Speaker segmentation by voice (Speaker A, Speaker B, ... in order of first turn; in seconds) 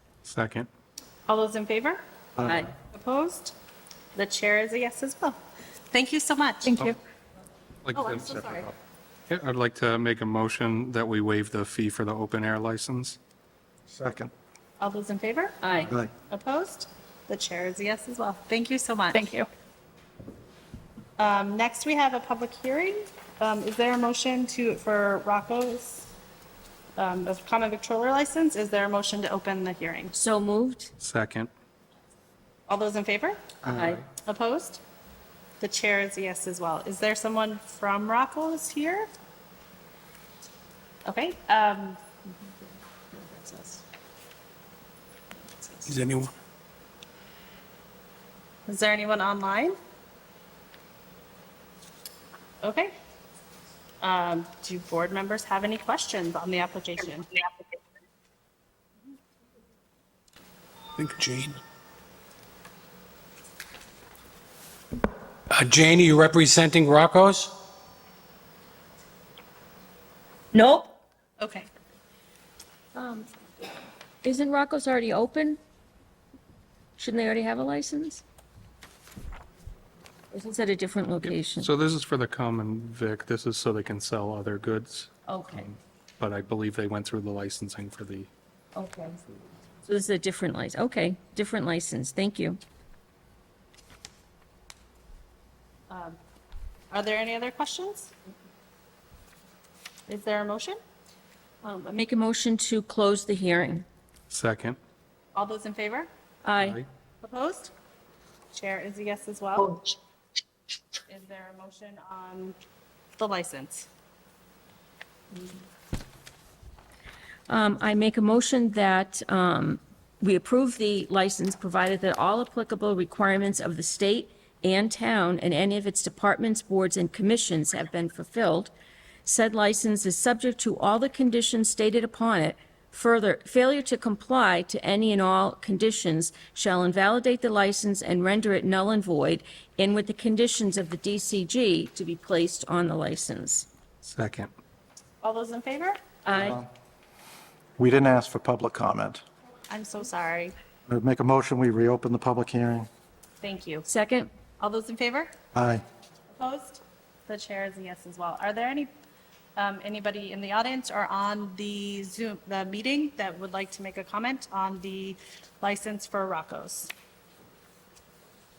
Speaker A: 0.2-0.7, 7.8-8.3, 9.3-13.2, 31.0-31.5, 81.2-88.3, 104.3-104.8, 106.6-106.9, 144.0-144.5
Speaker B: 1.3-2.0, 2.9-3.5, 4.1-5.4, 5.9-6.8, 7.9-8.7, 14.8-15.6, 16.3-19.4, 21.2-26.1, 27.0-30.1, 32.7-33.4, 34.2-34.8, 35.6-39.1, 41.0-42.0, 43.1-43.8, 48.7-49.8, 52.6-52.9, 54.0-57.4, 71.4-71.7, 95.9-96.2, 96.9-98.1, 100.1-100.8, 105.3-106.1, 107.2-107.7, 108.5-109.8, 111.1-112.6, 113.2-113.9, 145.2-146.0, 149.7-150.5, 153.4-153.9, 154.6-155.3, 156.3-158.9, 159.6-166.9
Speaker C: 2.4-2.7, 8.2-8.7, 13.9-14.3, 15.8-16.1, 33.6-34.0, 146.3-146.7, 147.8-149.2, 150.9-152.9, 155.5-155.8
Speaker D: 2.4-2.7, 15.6-15.9, 19.1-19.4, 30.1-30.9, 33.7-34.0, 70.5-70.9, 72.9-73.3, 74.2-75.6, 77.0-78.2, 80.3-81.7, 85.3-85.7, 88.8-89.2, 89.8-92.6, 101.6-103.8, 106.4-106.8, 117.5-128.7, 129.2-143.7, 146.2-146.6, 153.9-154.3
Speaker E: 45.9-46.3, 61.0-61.6, 65.5-67.6